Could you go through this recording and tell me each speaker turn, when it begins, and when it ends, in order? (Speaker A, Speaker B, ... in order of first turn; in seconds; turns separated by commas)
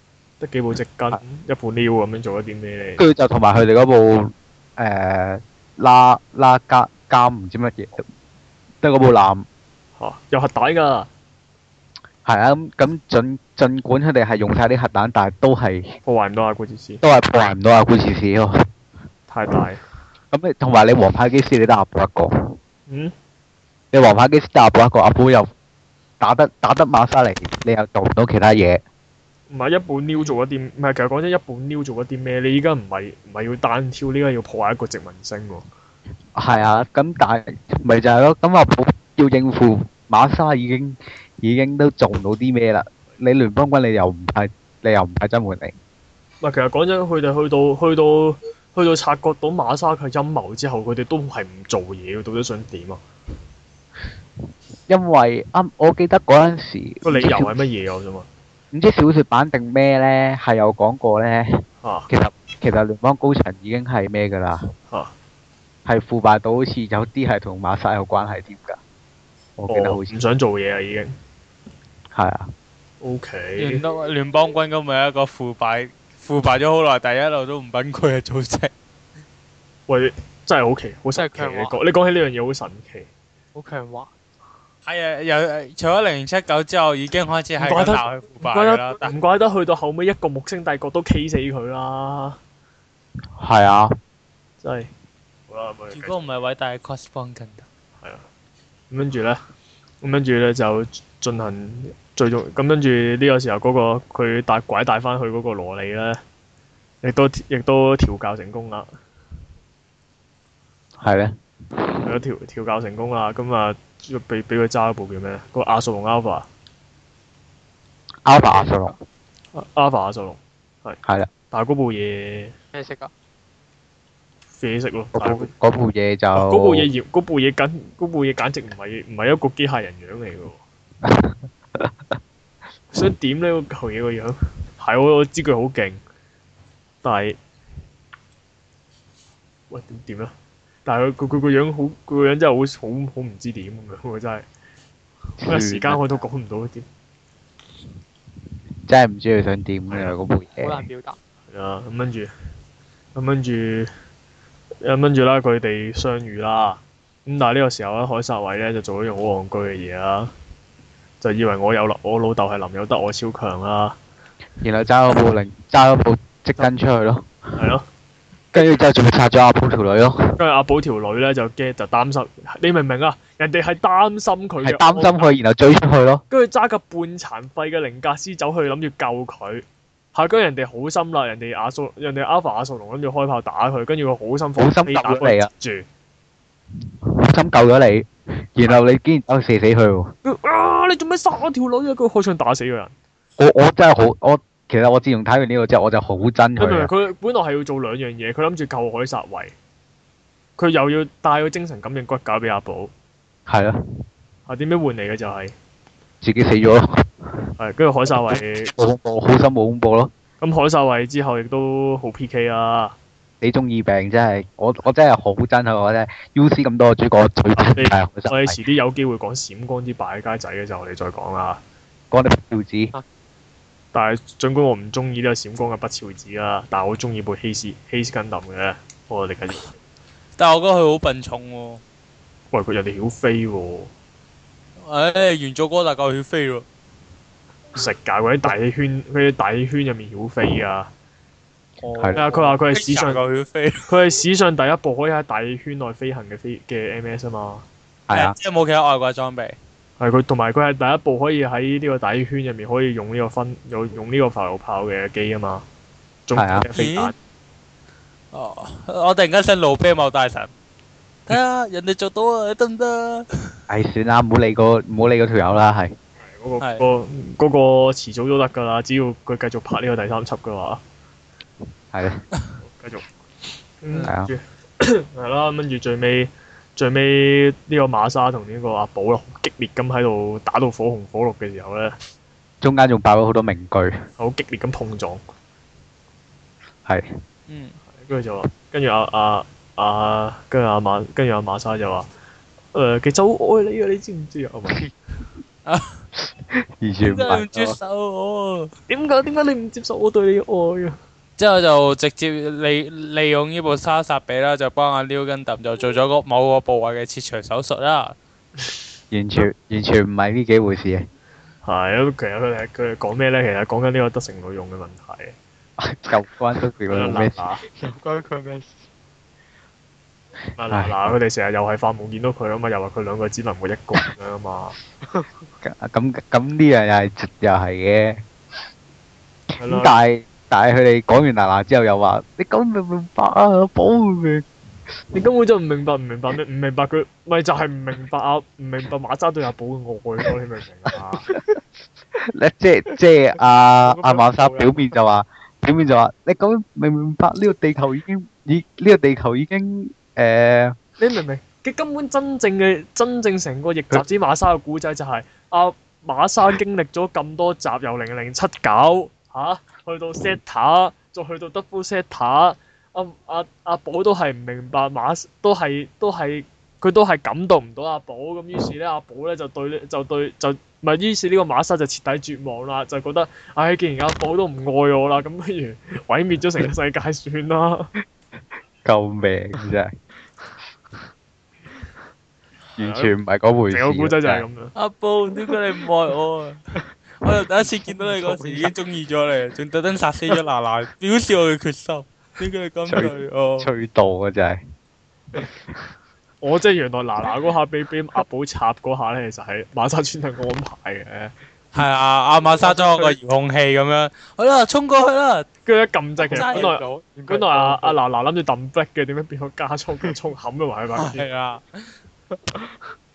Speaker A: 0.4-3.0, Speaker B: 3.0-8.1, Speaker B: 8.8-9.4, Speaker A: 10.0-11.1, Speaker B: 12.2-15.9, Speaker A: 16.1-17.0, Speaker B: 17.0-18.6, Speaker A: 19.3-19.8, Speaker B: 20.3-22.6, Speaker A: 22.9-23.1, Speaker B: 23.9-25.5, Speaker B: 26.2-28.8, Speaker A: 29.5-35.6, Speaker B: 36.3-45.7, Speaker A: 46.4-53.0, Speaker B: 54.9-57.5, Speaker A: 57.0-58.3, Speaker B: 58.7-64.6, Speaker A: 61.8-62.1, Speaker B: 65.8-68.8, Speaker B: 69.6-70.2, Speaker A: 69.7-71.1, Speaker B: 72.1-72.5, Speaker A: 73.0-73.8, Speaker C: 73.6-78.7, Speaker A: 79.9-83.1, Speaker D: 81.1-81.8, Speaker D: 83.5-84.1, Speaker C: 84.8-89.1, Speaker A: 87.6-92.4, Speaker B: 93.4-94.0, Speaker A: 94.6-94.9, Speaker A: 95.5-96.1, Speaker C: 95.9-97.6, Speaker A: 98.9-99.4, Speaker A: 100.0-106.2, Speaker A: 107.0-108.9, Speaker B: 111.0-112.1, Speaker A: 112.0-116.5, Speaker B: 118.2-118.9, Speaker D: 118.3-118.9, Speaker A: 119.5-121.0, Speaker B: 121.0-121.3, Speaker A: 121.5-122.5, Speaker D: 122.7-123.1, Speaker A: 124.6-125.5, Speaker B: 125.1-126.9, Speaker A: 126.3-130.6, Speaker B: 131.0-132.1, Speaker A: 132.9-136.0, Speaker A: 137.0-137.4, Speaker A: 139.7-140.3, Speaker A: 140.8-144.4, Speaker B: 145.4-146.2, Speaker A: 145.4-146.8, Speaker B: 148.8-150.9, Speaker D: 150.5-151.2, Speaker A: 151.5-152.3, Speaker A: 153.1-153.9, Speaker A: 154.8-160.3, Speaker A: 161.2-163.9, Speaker B: 164.6-167.3, Speaker A: 167.6-167.8, Speaker A: 168.5-168.8, Speaker B: 168.5-170.4, Speaker A: 170.4-175.3, Speaker B: 174.6-176.2, Speaker A: 176.3-185.8, Speaker B: 184.6-185.5, Speaker B: 187.0-190.1, Speaker A: 190.2-192.9, Speaker B: 193.4-196.9, Speaker A: 196.6-199.5, Speaker A: 200.6-202.9, Speaker B: 203.5-203.8, Speaker A: 204.5-205.5, Speaker B: 206.2-207.5, Speaker A: 207.6-208.7, Speaker B: 208.2-210.1, Speaker A: 210.4-212.9, Speaker B: 213.4-218.6, Speaker A: 217.6-221.6, Speaker B: 222.1-222.9, Speaker A: 223.9-229.7, Speaker C: 230.4-231.8, Speaker A: 232.5-233.9, Speaker C: 234.8-236.6, Speaker A: 237.7-240.9, Speaker A: 241.8-243.2, Speaker B: 241.9-242.2, Speaker C: 242.3-243.9, Speaker A: 243.9-247.6, Speaker B: 248.1-248.3, Speaker C: 248.1-249.6, Speaker A: 250.0-255.6, Speaker A: 256.3-257.1, Speaker B: 256.4-256.6, Speaker C: 256.7-257.1, Speaker C: 258.3-260.5, Speaker C: 261.3-263.3, Speaker B: 263.7-265.9, Speaker A: 266.2-270.8, Speaker C: 266.6-266.9, Speaker B: 271.9-272.2, Speaker A: 272.6-273.1, Speaker A: 273.8-281.9, Speaker B: 274.0-274.3, Speaker B: 282.6-284.0, Speaker A: 284.2-285.2, Speaker C: 287.5-287.8, Speaker A: 288.0-292.1, Speaker A: 292.7-294.8, Speaker C: 295.6-296.0, Speaker B: 296.8-297.8, Speaker C: 297.0-298.7, Speaker A: 298.9-300.9, Speaker C: 301.4-308.1, Speaker B: 309.1-311.1, Speaker A: 311.6-315.4, Speaker B: 315.8-317.4, Speaker A: 316.9-317.6, Speaker D: 317.8-318.8, Speaker A: 320.6-324.8, Speaker B: 325.6-328.2, Speaker A: 329.6-329.9, Speaker B: 329.6-334.4, Speaker A: 335.1-341.3, Speaker B: 342.2-350.8, Speaker D: 343.8-344.9, Speaker A: 351.0-377.9, Speaker B: 378.8-379.9, Speaker B: 382.8-384.4, Speaker A: 382.8-383.1, Speaker A: 383.7-384.7, Speaker C: 384.7-386.6, Speaker C: 387.2-393.7, Speaker D: 387.2-388.7, Speaker B: 392.9-394.6, Speaker A: 396.4-401.3, Speaker C: 401.7-405.4, Speaker D: 402.6-403.2, Speaker A: 405.6-411.3, Speaker D: 406.2-408.0, Speaker C: 406.3-406.7, Speaker C: 411.0-411.8, Speaker D: 412.3-412.9